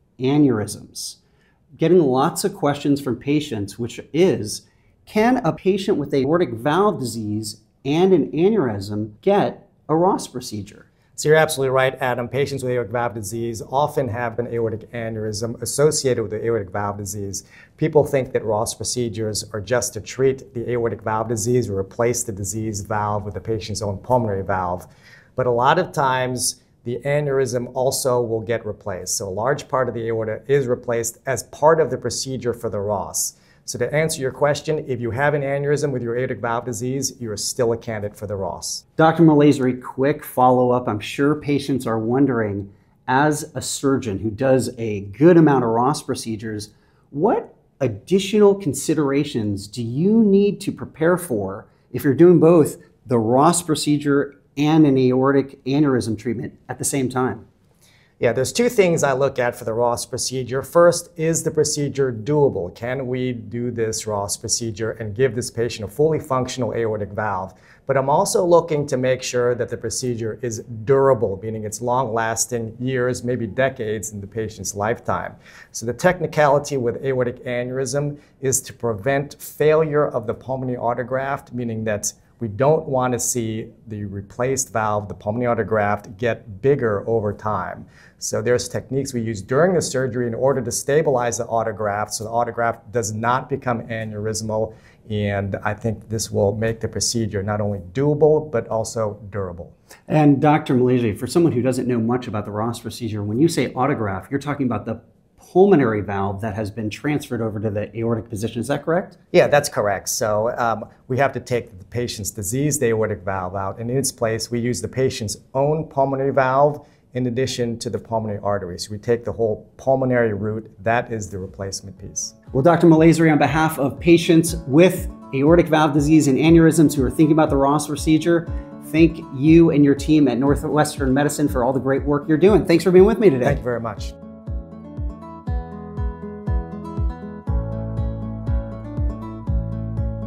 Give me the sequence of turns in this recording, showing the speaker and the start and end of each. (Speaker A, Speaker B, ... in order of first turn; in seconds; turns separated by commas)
Speaker A: 0.2-1.2, Speaker A: 1.8-10.9, Speaker B: 11.2-38.8, Speaker A: 39.0-57.4, Speaker B: 58.2-99.7, Speaker A: 100.1-109.2, Speaker B: 109.3-122.3, Speaker A: 122.5-133.6, Speaker B: 133.4-134.1